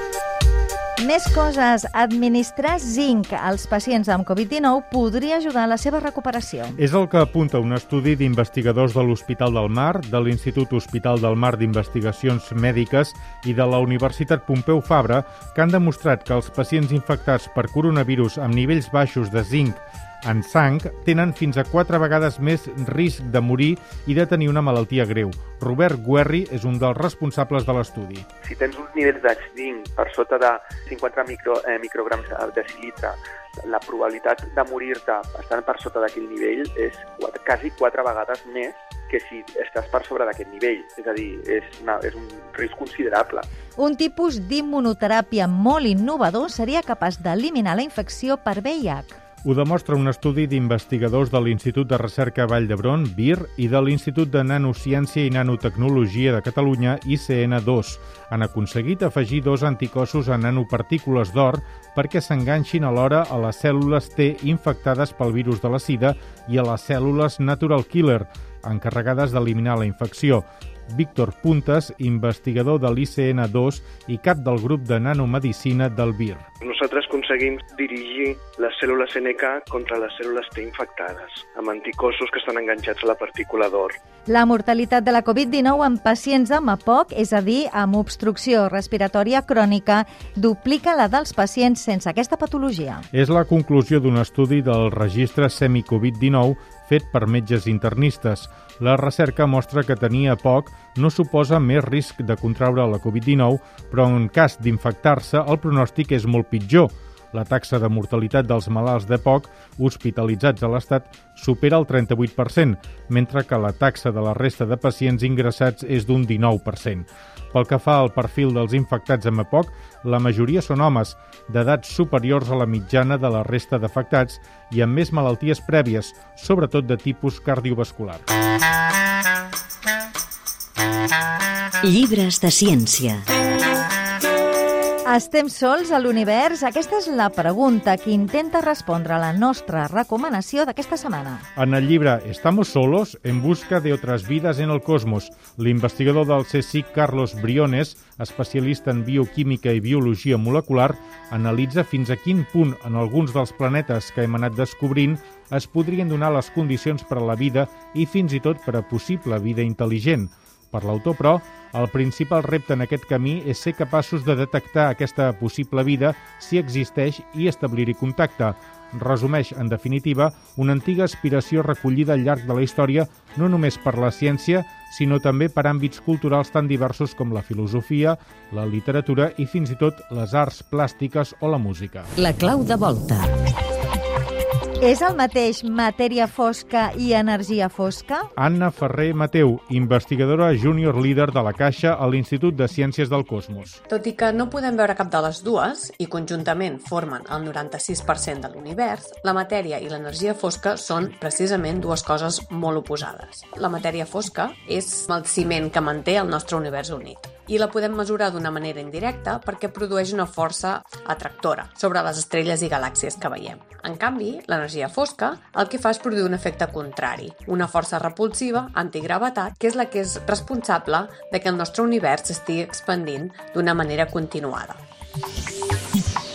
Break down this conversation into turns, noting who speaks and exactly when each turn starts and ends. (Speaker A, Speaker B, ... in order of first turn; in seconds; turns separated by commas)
Speaker A: 1.0-6.8, Speaker B: 6.8-28.2, Speaker C: 28.4-43.5, Speaker A: 43.8-49.2, Speaker B: 49.4-76.4, Speaker D: 76.6-83.9, Speaker A: 84.3-93.0, Speaker B: 93.1-128.2, Speaker E: 131.8-133.2, Speaker A: 135.1-141.4, Speaker B: 141.6-182.1, Speaker E: 182.2-183.3, Speaker A: 184.8-188.3, Speaker B: 188.4-193.8, Speaker F: 193.9-224.8